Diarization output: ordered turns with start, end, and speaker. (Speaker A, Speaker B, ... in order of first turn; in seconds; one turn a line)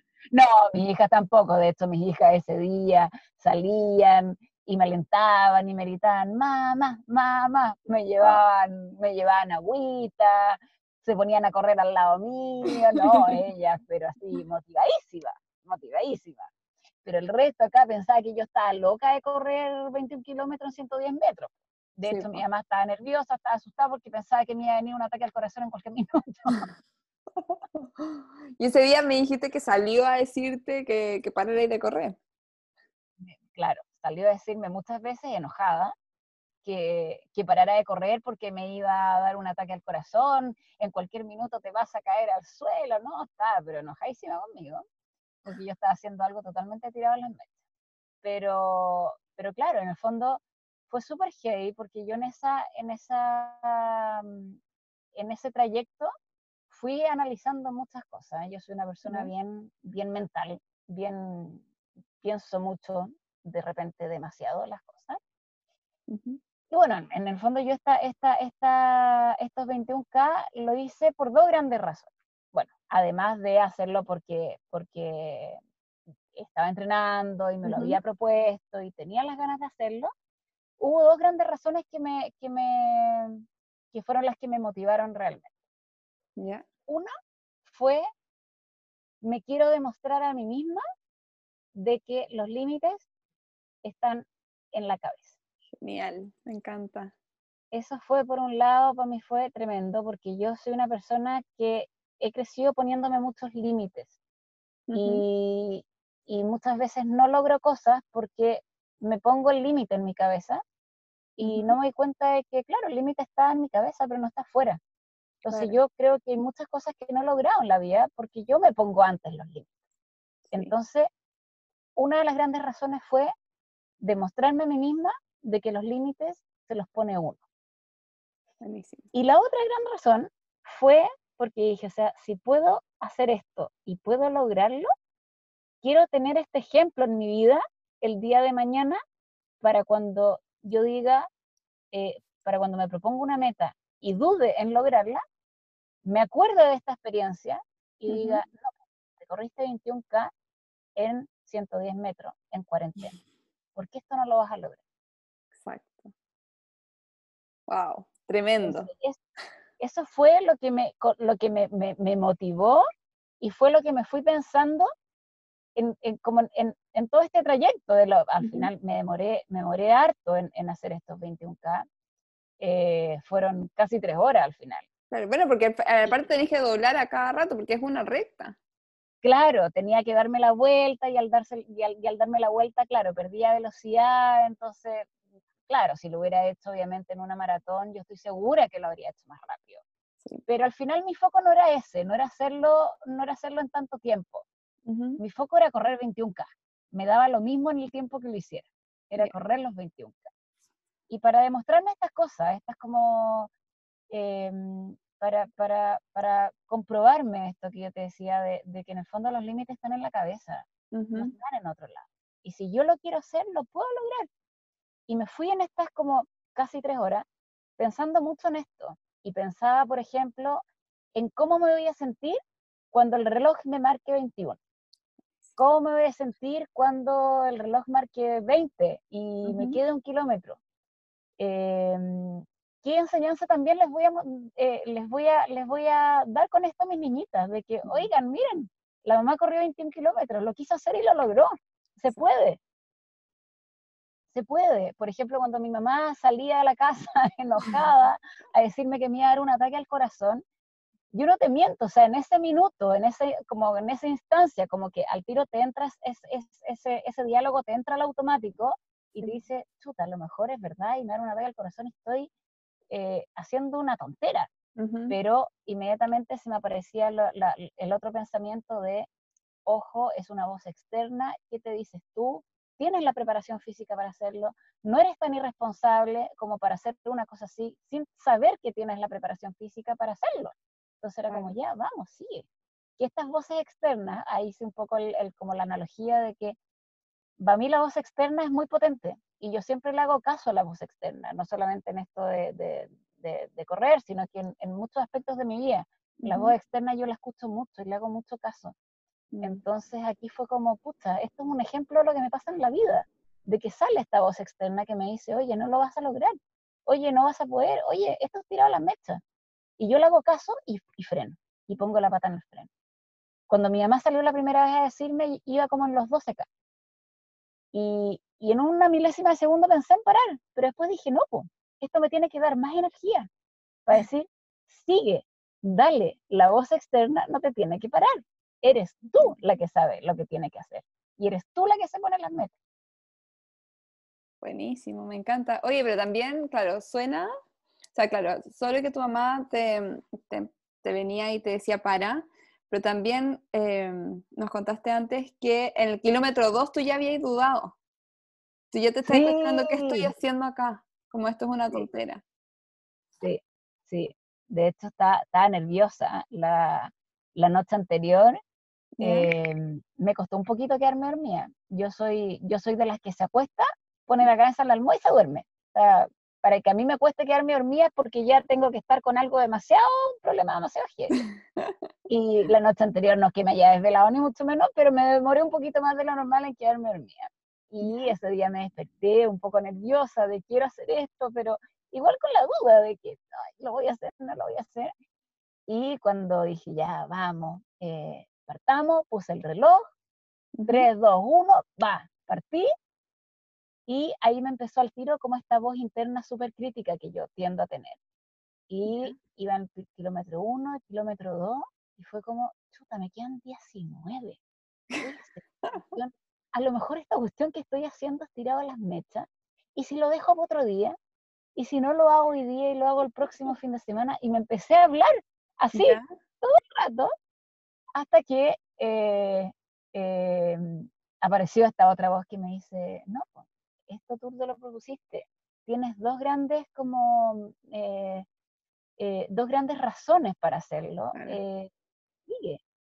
Speaker A: 0.3-16.5
Speaker B: 13.0-13.3
Speaker A: 17.0-26.7
Speaker B: 22.1-22.4
Speaker B: 27.4-32.2
Speaker A: 33.2-35.9
Speaker A: 36.6-44.8
Speaker A: 45.5-47.5
Speaker A: 48.2-54.6
Speaker A: 55.1-56.1
Speaker A: 56.7-61.7
Speaker B: 59.0-59.3
Speaker A: 62.2-65.2
Speaker B: 66.1-66.4
Speaker A: 66.7-75.6
Speaker A: 76.3-80.1
Speaker B: 77.7-78.0
Speaker A: 80.8-85.5
Speaker B: 86.4-86.7
Speaker A: 87.7-88.0
Speaker A: 89.2-90.8
Speaker A: 91.8-93.1
Speaker A: 93.8-95.3
Speaker B: 95.8-97.1
Speaker A: 97.7-104.1
Speaker B: 104.9-105.2
Speaker A: 105.0-110.6
Speaker A: 111.4-114.8
Speaker B: 111.4-111.8
Speaker A: 115.4-119.7
Speaker B: 115.5-115.8
Speaker B: 120.5-120.7
Speaker A: 120.5-121.1
Speaker A: 122.0-123.3
Speaker A: 124.0-127.4
Speaker B: 128.6-129.1
Speaker A: 129.1-134.9
Speaker A: 135.8-139.0
Speaker A: 139.6-141.3
Speaker A: 141.9-145.2
Speaker A: 146.0-150.3
Speaker B: 148.1-148.4
Speaker A: 151.0-153.2
Speaker A: 153.8-154.8
Speaker B: 155.6-156.1
Speaker B: 157.7-158.9
Speaker A: 158.6-159.2
Speaker A: 159.8-162.8
Speaker A: 163.4-164.9
Speaker A: 165.8-171.9
Speaker B: 168.4-168.7
Speaker A: 172.6-174.9
Speaker B: 175.1-178.6
Speaker A: 179.2-185.1
Speaker A: 185.7-189.8
Speaker A: 190.5-194.4
Speaker B: 194.9-195.2
Speaker A: 195.2-200.3
Speaker A: 201.1-203.5
Speaker A: 204.1-214.3
Speaker B: 210.9-211.3
Speaker A: 215.1-217.2
Speaker A: 217.8-220.6
Speaker A: 221.2-222.4
Speaker A: 222.9-224.6
Speaker A: 225.6-230.6
Speaker B: 229.4-229.8
Speaker A: 231.4-242.6
Speaker A: 244.3-250.4
Speaker A: 251.1-262.3
Speaker A: 262.9-264.5
Speaker B: 264.8-265.2
Speaker A: 265.1-269.1
Speaker A: 269.7-282.5
Speaker B: 281.3-281.6
Speaker A: 283.0-286.6
Speaker A: 287.4-298.8
Speaker B: 296.2-296.6
Speaker B: 299.3-299.6
Speaker A: 299.4-306.3
Speaker A: 306.9-309.2
Speaker A: 309.8-312.7
Speaker A: 313.5-316.5
Speaker A: 317.7-323.3
Speaker A: 323.9-332.5
Speaker B: 334.4-337.3
Speaker B: 337.9-347.8
Speaker B: 348.7-352.2
Speaker A: 349.1-350.1
Speaker A: 353.2-358.4
Speaker B: 359.0-359.3
Speaker A: 359.0-371.2
Speaker B: 371.1-371.8
Speaker A: 372.1-384.9
Speaker B: 377.8-378.1
Speaker A: 385.7-389.8
Speaker B: 390.6-390.9
Speaker A: 390.6-392.7
Speaker A: 393.9-398.0
Speaker A: 398.7-404.4
Speaker B: 398.9-399.2
Speaker A: 405.0-410.9
Speaker B: 405.6-405.9
Speaker A: 411.6-417.1
Speaker B: 415.7-416.1
Speaker A: 417.9-423.4
Speaker A: 423.9-428.3
Speaker A: 429.0-431.7
Speaker B: 431.1-431.4
Speaker A: 432.3-432.6